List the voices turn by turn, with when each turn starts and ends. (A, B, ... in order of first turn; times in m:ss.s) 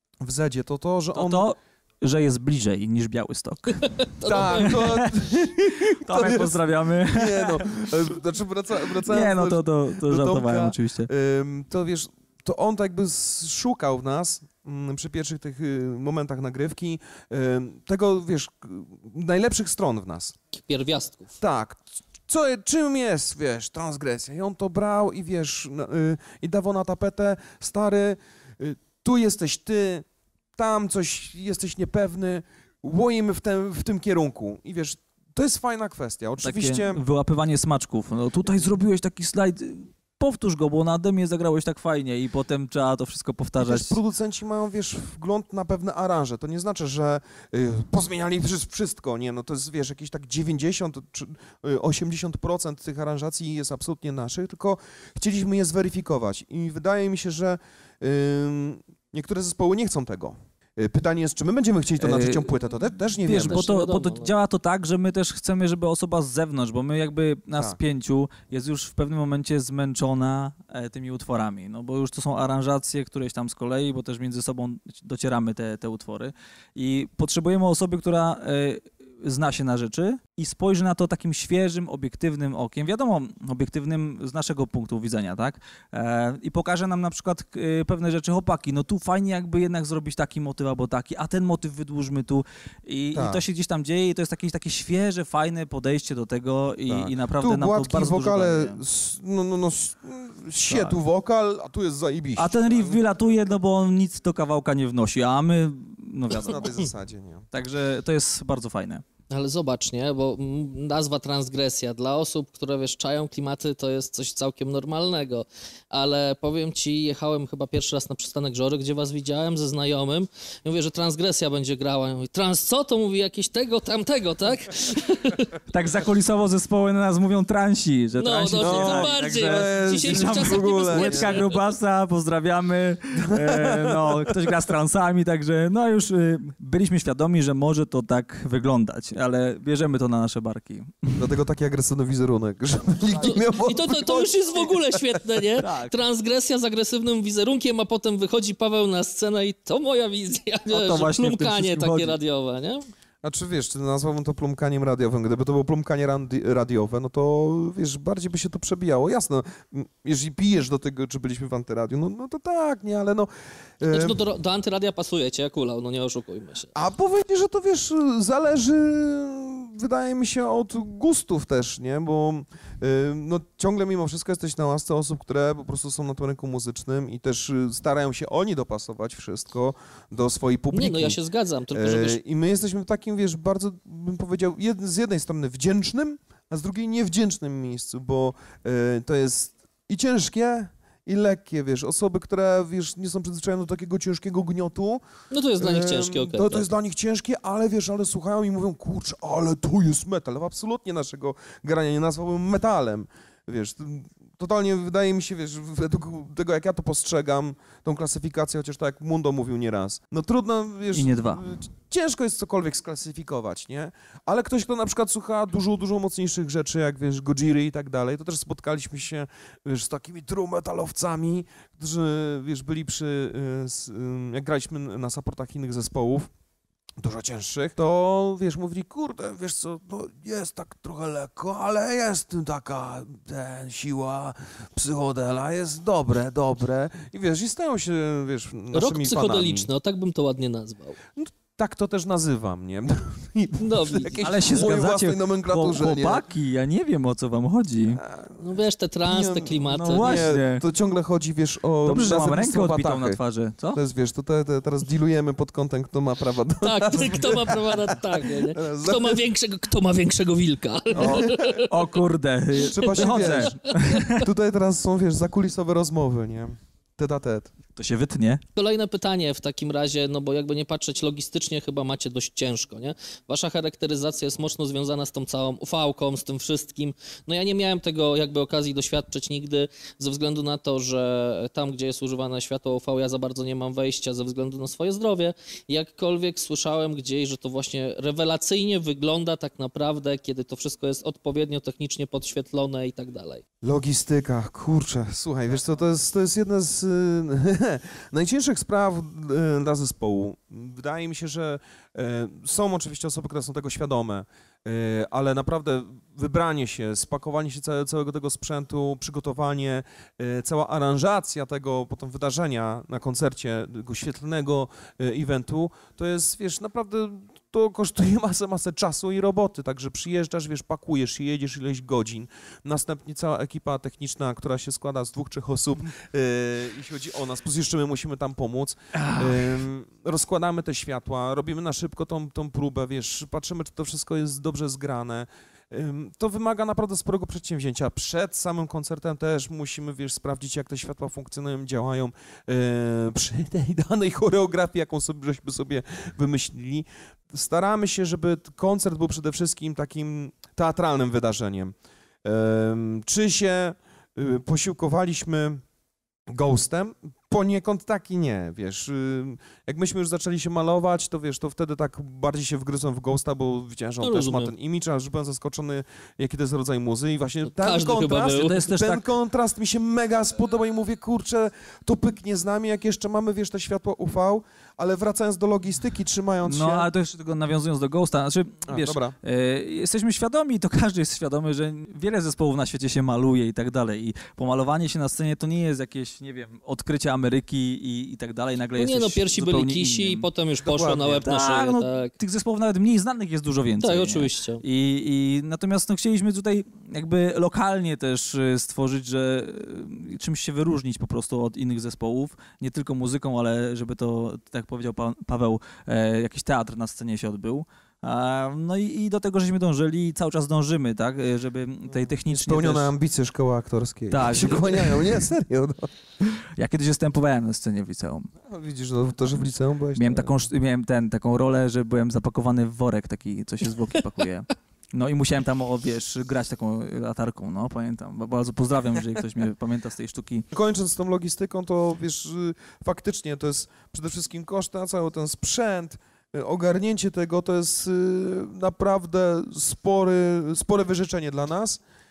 0:00.2-0:01.5 A
0:01.1-0:08.0 B
0:03.8-0:04.8 C
0:04.2-0:20.4 A
0:09.1-0:11.1 B
0:20.5-0:21.3 C
0:21.4-0:37.0 A
0:36.4-0:44.0 B
0:43.6-1:03.7 A
1:02.0-1:02.5 B
1:03.2-1:38.8 B
1:03.4-1:04.3 C
1:07.5-1:07.8 A
1:33.1-1:33.4 A
1:36.9-1:43.0 A
1:40.7-1:41.0 B
1:42.4-1:46.7 B
1:46.4-1:47.5 A
1:47.5-1:49.0 B
1:49.3-2:05.5 C
2:05.7-2:21.3 B
2:08.2-2:11.6 C
2:08.6-2:11.4 A
2:13.1-2:14.6 A
2:21.2-2:25.4 A
2:23.2-2:32.8 C
2:25.6-2:26.0 B
2:30.7-2:32.2 B
2:33.2-2:44.2 A
2:43.9-2:46.7 C
2:46.8-3:01.2 A
3:00.7-3:02.2 C
3:01.7-3:15.0 A
3:15.3-3:16.7 C
3:15.6-3:46.3 A
3:30.9-3:31.4 B
3:47.0-3:59.7 A
3:58.7-4:01.0 C
4:01.2-4:06.2 A
4:03.6-4:04.2 C
4:04.2-4:08.0 B
4:08.0-4:08.4 A
4:08.4-4:10.3 C
4:09.0-4:13.2 A
4:09.7-4:10.6 B
4:11.8-4:13.8 B
4:13.7-4:19.2 A
4:16.6-4:21.7 C
4:20.9-4:24.3 B
4:21.0-4:21.4 A
4:22.7-4:23.6 A
4:22.8-4:24.1 C
4:24.1-4:27.5 A
4:27.8-4:28.4 B
4:28.6-4:53.4 C
4:53.6-5:55.6 A
5:28.9-5:29.6 B
5:56.3-6:16.9 A
6:04.0-6:04.5 C
6:07.5-6:08.6 C
6:08.2-6:09.1 B
6:16.4-6:30.3 B
6:18.7-6:19.2 A
6:28.8-6:32.1 C
6:30.6-6:31.2 A
6:31.1-6:52.9 B
6:33.8-6:34.6 C
6:52.3-6:55.9 A
6:54.1-6:55.2 B
6:56.6-6:58.3 B
6:58.4-7:00.4 A
7:00.0-7:10.4 B
7:10.5-7:21.8 A